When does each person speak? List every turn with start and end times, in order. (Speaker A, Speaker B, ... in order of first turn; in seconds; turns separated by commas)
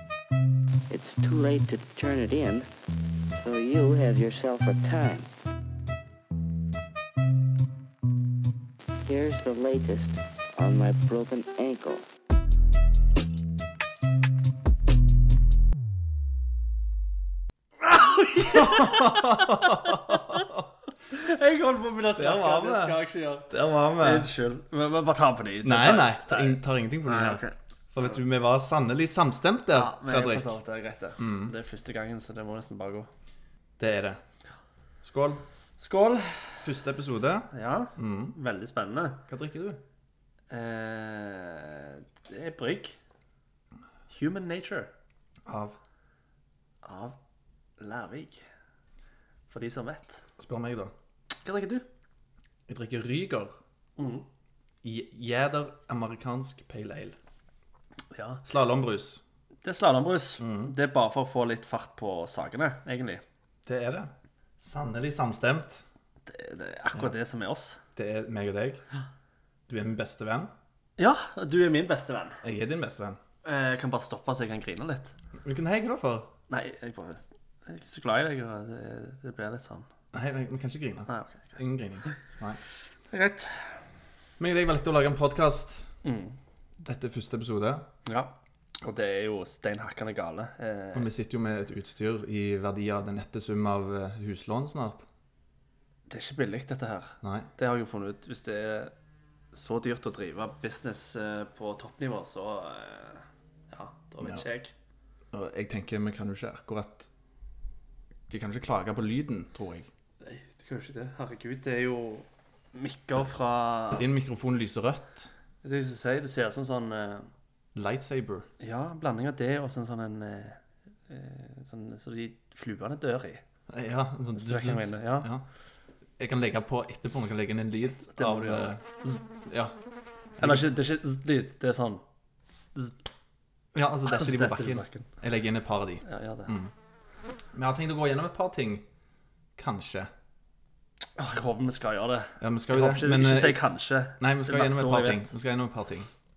Speaker A: 0.9-2.7, Speaker A: 3.3-5.3, Speaker A: 9.0-12.0, Speaker B: 17.8-20.5, Speaker C: 18.5-20.6, Speaker B: 21.1-28.0, Speaker C: 22.1-24.3, Speaker C: 25.6-27.4, Speaker C: 27.9-30.6, Speaker B: 29.7-33.1, Speaker C: 31.2-31.5, Speaker C: 33.8-34.2, Speaker C: 35.0-35.4, Speaker B: 35.8-36.7, Speaker C: 36.6-38.4, Speaker B: 37.5-39.2, Speaker C: 39.3-39.8, Speaker B: 40.5-43.0, Speaker B: 44.1-44.9, Speaker C: 45.5-45.8, Speaker B: 46.8-47.1, Speaker B: 47.8-48.4, Speaker B: 49.5-50.2, Speaker C: 50.4-50.9, Speaker B: 51.4-51.8, Speaker C: 52.7-53.6, Speaker B: 54.0-54.2, Speaker C: 54.8-57.1, Speaker B: 58.1-58.4, Speaker C: 58.4-59.2, Speaker B: 59.6-63.2, Speaker C: 60.4-60.7, Speaker C: 63.6-65.8, Speaker B: 66.2-67.8, Speaker C: 68.0-68.8, Speaker C: 69.7-70.5, Speaker B: 71.0-72.4, Speaker C: 72.4-73.2, Speaker B: 73.4-75.1, Speaker C: 75.4-76.3, Speaker B: 76.5-79.9, Speaker C: 80.1-82.6, Speaker B: 81.1-82.1, Speaker B: 83.1-83.8, Speaker C: 84.4-85.9, Speaker B: 86.0-86.3, Speaker C: 86.8-87.9, Speaker B: 88.0-91.1, Speaker C: 90.9-95.0, Speaker B: 96.1-98.9, Speaker C: 97.2-97.5, Speaker B: 99.5-104.7, Speaker C: 105.3-107.1, Speaker C: 108.3-109.9, Speaker B: 110.2-114.1, Speaker C: 114.0-115.3, Speaker B: 115.6-117.3, Speaker C: 117.7-118.5, Speaker B: 118.6-123.4, Speaker C: 123.7-125.4, Speaker B: 124.4-125.3, Speaker C: 126.2-129.7, Speaker B: 128.1-128.7, Speaker C: 130.4-130.7, Speaker B: 130.4-132.0, Speaker C: 133.7-136.7, Speaker B: 134.1-135.1, Speaker B: 136.0-136.5, Speaker C: 137.5-138.8, Speaker C: 139.6-140.1, Speaker B: 141.2-145.3, Speaker C: 142.4-143.6, Speaker C: 144.2-146.1